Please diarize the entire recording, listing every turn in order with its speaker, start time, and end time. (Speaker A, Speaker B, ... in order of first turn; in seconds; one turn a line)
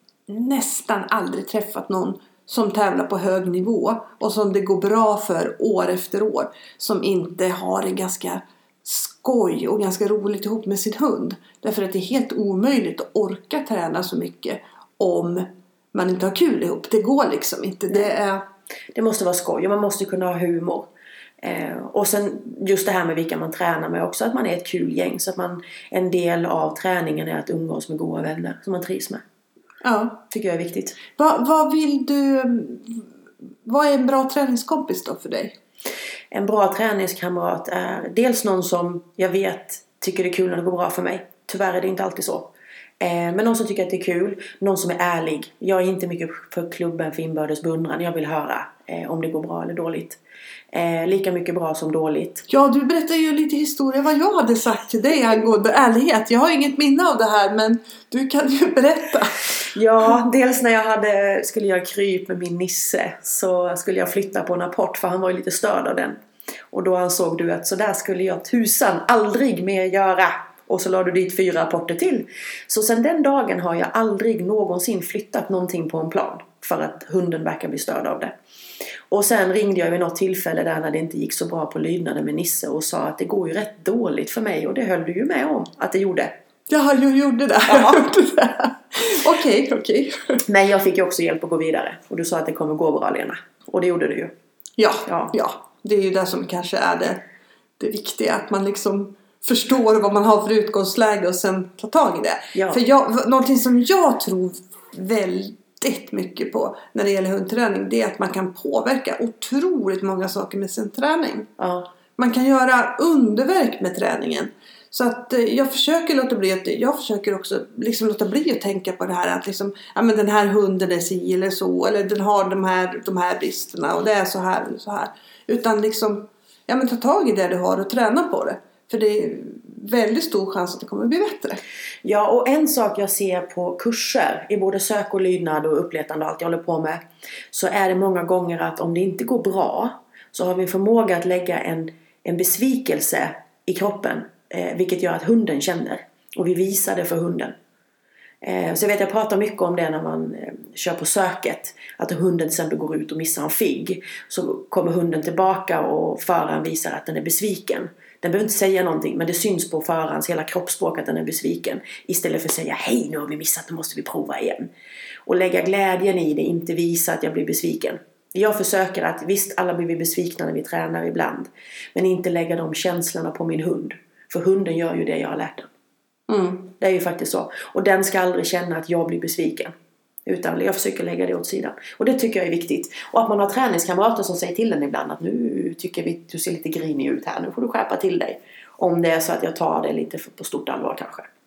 Speaker A: 0.3-18.4
Speaker B: 18.9-29.2
Speaker A: 29.8-30.2
Speaker B: 30.3-31.0
Speaker A: 31.2-33.1
Speaker A: 33.6-35.6
Speaker B: 36.3-50.2
Speaker B: 50.7-52.5
Speaker A: 52.5-59.5
Speaker B: 59.6-78.3
Speaker B: 79.1-86.3
Speaker A: 86.7-90.4
Speaker B: 87.7-88.0
Speaker B: 90.5-94.3
Speaker A: 94.8-97.2
Speaker B: 95.1-95.3
Speaker A: 97.8-111.5
Speaker B: 102.5-102.8
Speaker B: 111.6-111.9
Speaker A: 112.2-131.6
Speaker B: 132.0-147.6
Speaker B: 148.4-164.7
Speaker B: 165.3-175.7
Speaker A: 176.3-176.7
Speaker B: 176.8-179.7
Speaker B: 180.3-191.3